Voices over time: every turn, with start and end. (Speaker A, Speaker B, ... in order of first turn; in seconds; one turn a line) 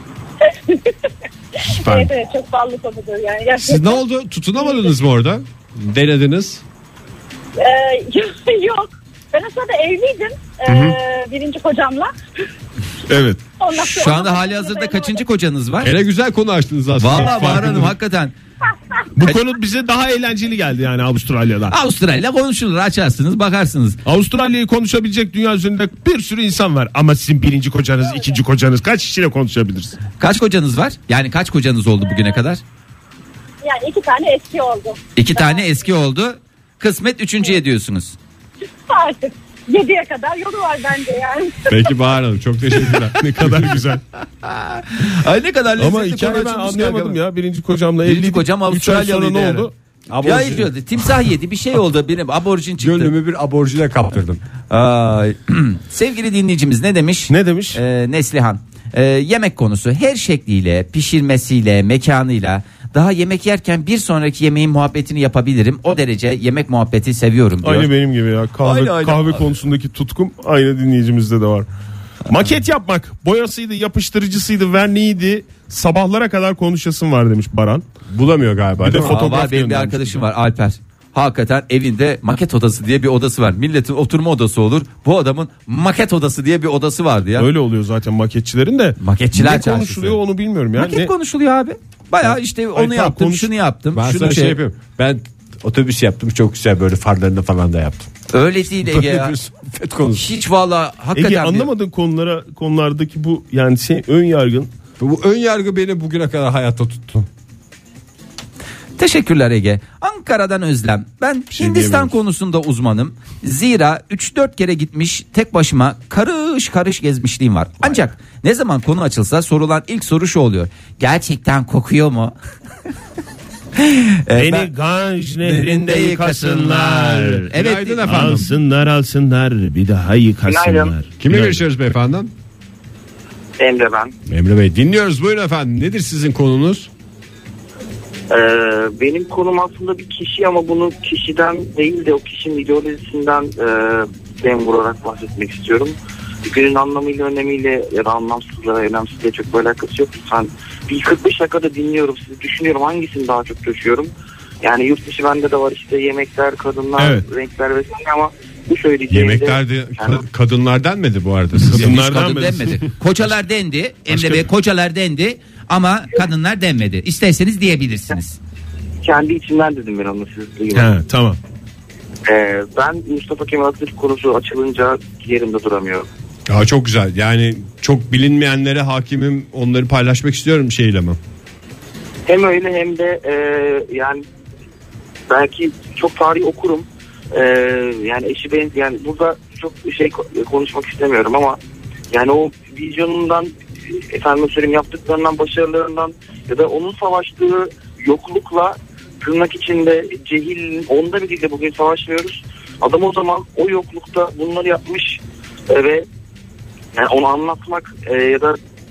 Speaker A: 0.4-0.9
Speaker A: 1.6-4.0
Speaker B: 1.7-2.1
Speaker B: 3.6-6.6
Speaker A: 7.6-12.1
Speaker B: 10.7-10.9
Speaker C: 13.1-13.4
Speaker A: 13.6-15.2
Speaker D: 13.7-16.0
Speaker B: 15.8-17.9
Speaker D: 17.0-18.4
Speaker C: 19.2-21.7
Speaker D: 21.7-24.0
Speaker C: 24.0-30.0
Speaker D: 30.2-32.6
Speaker A: 32.1-32.4
Speaker A: 33.6-35.7
Speaker D: 35.1-38.2
Speaker A: 38.9-41.8
Speaker B: 41.7-43.8
Speaker C: 43.1-44.0
Speaker D: 44.2-47.2
Speaker C: 45.8-49.7
Speaker D: 48.0-49.7
Speaker B: 50.1-50.7
Speaker D: 50.2-53.1
Speaker B: 52.8-54.4
Speaker D: 54.7-67.9
Speaker C: 57.3-57.8
Speaker C: 67.6-71.7
Speaker D: 68.6-69.4
Speaker C: 72.2-77.8
Speaker B: 78.1-79.2
Speaker C: 78.8-80.2
Speaker D: 79.0-87.5
Speaker C: 87.4-91.1
Speaker D: 89.0-90.2
Speaker D: 90.8-94.6
Speaker C: 92.7-93.5
Speaker B: 93.9-98.1
Speaker D: 98.3-99.3
Speaker B: 98.7-100.3
Speaker D: 100.2-101.7
Speaker C: 101.1-104.7
Speaker B: 105.0-107.3
Speaker D: 109.0-122.3
Speaker B: 111.5-112.1
Speaker D: 123.8-124.7
Speaker C: 124.3-127.5
Speaker D: 125.4-128.4
Speaker B: 127.5-128.5
Speaker C: 128.0-131.6
Speaker E: 130.5-130.9
Speaker B: 131.2-132.3
Speaker E: 133.6-134.1
Speaker B: 134.2-136.9
Speaker E: 138.3-154.1
Speaker E: 154.6-160.2
Speaker C: 157.0-157.2
Speaker B: 159.1-161.9
Speaker C: 161.6-162.9
Speaker D: 161.7-168.4
Speaker C: 164.1-164.4
Speaker E: 169.0-170.9
Speaker C: 170.7-171.4
Speaker E: 172.3-176.1
Speaker B: 176.5-181.2
Speaker E: 182.3-184.2
Speaker E: 185.3-191.6
Speaker E: 192.1-206.1
Speaker E: 206.9-208.6